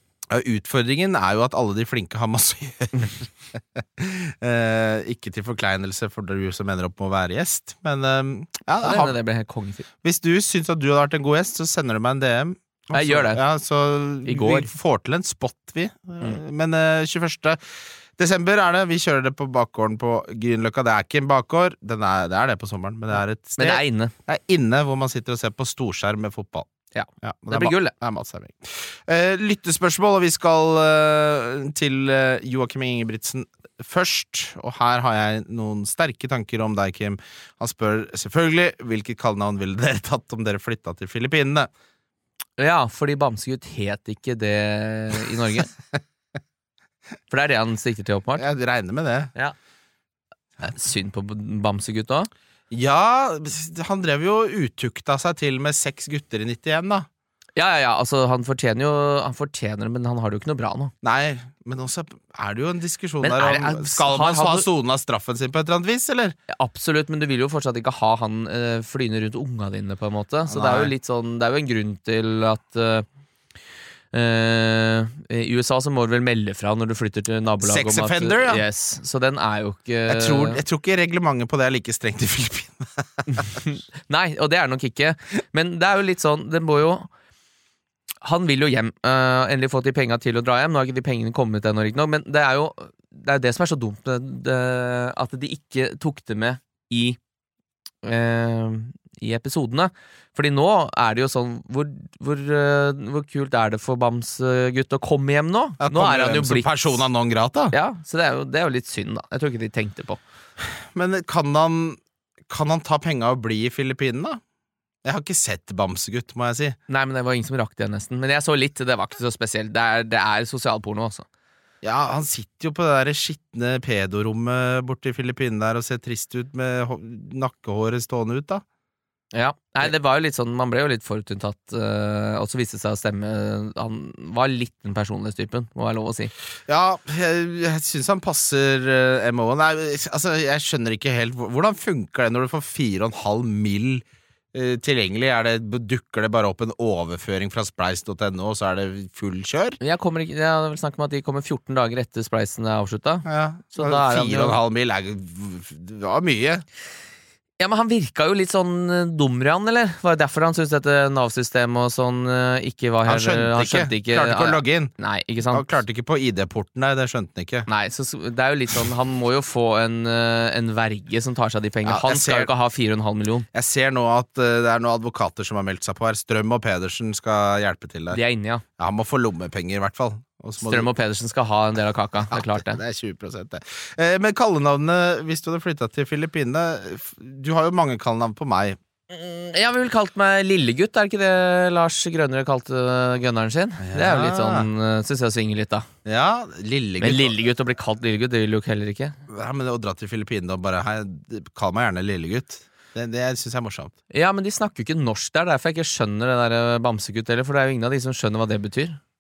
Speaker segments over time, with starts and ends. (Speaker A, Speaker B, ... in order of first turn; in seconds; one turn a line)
Speaker A: 0.3-9.2
Speaker B: 8.8-9.8
Speaker A: 10.0-17.6
Speaker B: 12.9-13.4
Speaker B: 14.2-14.7
Speaker A: 18.2-26.7
Speaker B: 23.6-24.1
Speaker B: 26.9-27.9
Speaker A: 27.2-41.7
Speaker B: 42.6-45.7
Speaker B: 47.3-48.4
Speaker A: 48.4-49.3
Speaker B: 50.6-52.3
Speaker A: 52.7-57.1
Speaker B: 57.6-60.9
Speaker A: 61.0-66.3
Speaker B: 63.2-64.7
Speaker B: 66.5-73.0
Speaker A: 70.5-70.9
Speaker B: 74.1-80.6
Speaker A: 77.6-78.6
Speaker A: 80.0-83.5
Speaker B: 83.3-87.1
Speaker B: 88.2-97.2
Speaker B: 98.0-107.0
Speaker A: 105.8-107.7
Speaker B: 107.7-110.2
Speaker A: 110.8-114.4
Speaker A: 115.0-116.8
Speaker B: 116.9-121.2
Speaker A: 121.8-128.6
Speaker B: 129.3-136.3
Speaker A: 136.7-149.8
Speaker B: 149.8-154.6
Speaker A: 153.3-156.6
Speaker B: 157.6-165.7
Speaker A: 163.1-164.9
Speaker A: 165.5-167.7
Speaker B: 167.7-173.5
Speaker A: 171.8-172.5
Speaker A: 173.5-178.2
Speaker B: 178.1-178.6
Speaker A: 178.8-180.9
Speaker B: 180.6-182.8
Speaker A: 182.3-188.8
Speaker B: 189.1-195.8
Speaker A: 193.8-194.7
Speaker A: 196.0-197.4
Speaker B: 197.0-199.2
Speaker A: 199.3-203.9
Speaker B: 204.1-209.0